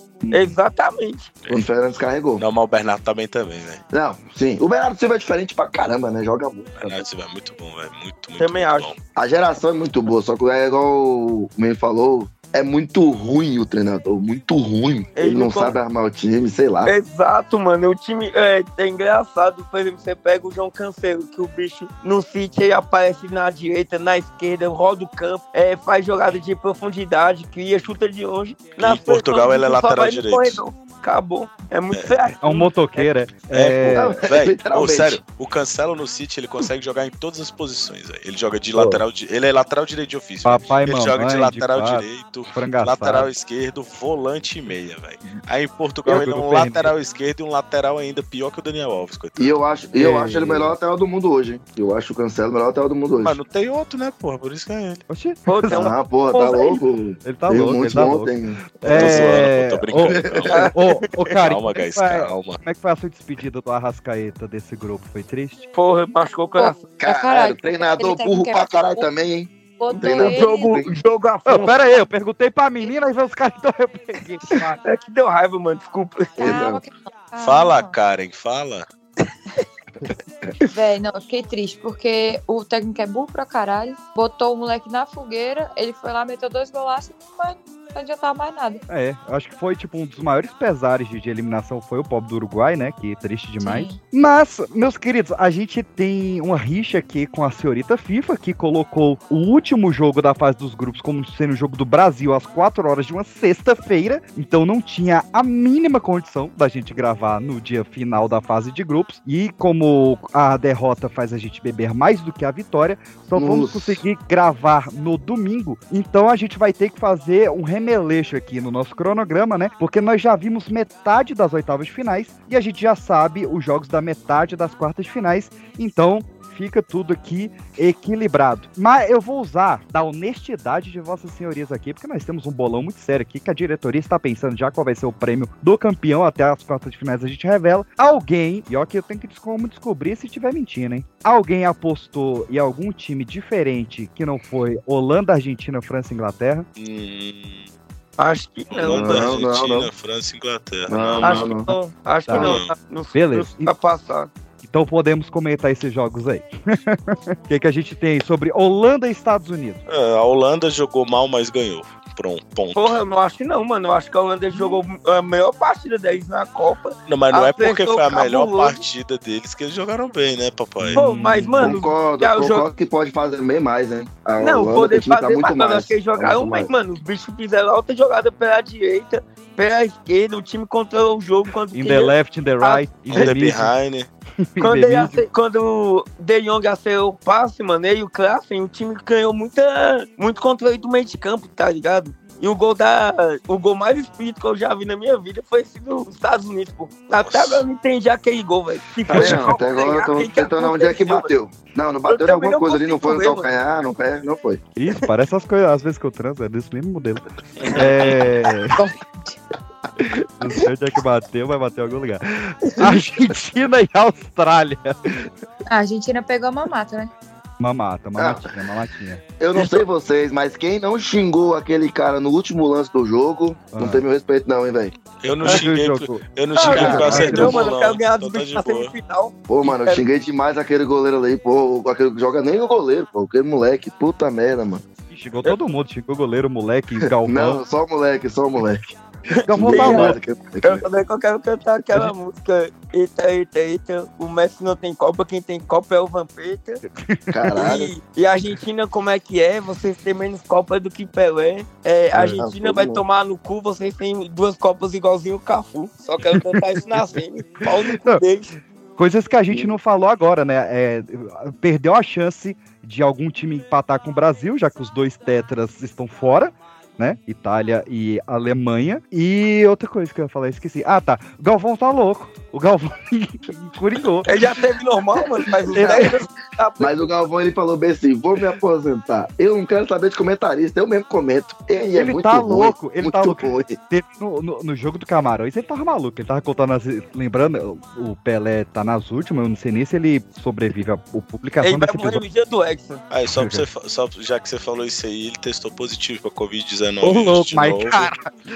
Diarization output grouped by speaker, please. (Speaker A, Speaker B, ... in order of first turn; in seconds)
Speaker A: 0.2-0.6, 32.4-34.2, 38.8-39.0, 40.5-43.3, 46.1-46.9, 50.0-50.8, 55.1-55.9, 57.2-60.2, 60.7-65.7, 71.5-74.8, 88.9-146.7, 152.3-152.6, 153.1-153.7, 154.6-159.8, 170.8-171.8, 181.7-183.7, 184.5-185.2, 199.1-199.6, 204.8-208.8, 210.4-215.3, 217.6-219.2, 223.7-224.0, 225.4-226.2, 226.8-227.6, 235.1-237.6, 239.5-240.2, 247.0-247.6, 256.5-257.1, 259.0-274.3, 275.8-276.1, 281.9-292.2, 293.4-293.6, 297.0-298.3
Speaker B: 0.3-1.3, 8.4-8.9, 15.2-15.8, 16.9-33.1, 55.5-56.8, 60.5-61.1, 65.7-67.0, 69.9-71.8, 74.5-76.6, 148.2-149.3, 151.2-154.3, 162.8-168.8, 170.9-172.7, 174.4-183.3, 184.6-201.3, 202.1-203.5, 226.6-230.0, 239.6-246.8, 247.6-258.6, 274.3-277.1, 291.6-293.0
Speaker C: 1.5-2.4, 3.9-7.1, 9.2-16.9, 33.9-35.2, 49.4-53.4, 55.7-59.4, 60.0-60.7, 67.0-70.9, 76.4-76.8, 113.3-114.0, 148.8-149.9, 150.9-151.7, 171.6-176.7, 199.1-204.6, 218.2-218.5, 219.4-224.9, 226.6-227.6, 229.5-234.8, 237.2-238.9, 239.5-240.8, 247.3-247.9, 252.1-253.0, 275.7-276.1, 276.8-283.8
Speaker D: 2.4-3.8, 6.8-9.0, 28.8-30.6, 31.9-32.2, 33.5-49.6, 53.1-55.0, 58.9-60.6, 61.4-62.6, 77.4-78.9, 146.8-147.7, 148.7-151.6, 152.3-152.7, 159.9-163.0, 167.1-171.0, 183.1-184.1, 197.2-197.7, 225.2-228.9, 293.1-298.1
Speaker E: 66.6-69.1, 69.8-70.8, 76.4-77.9, 80.7-88.8, 93.6-94.0, 208.8-209.4, 215.7-217.1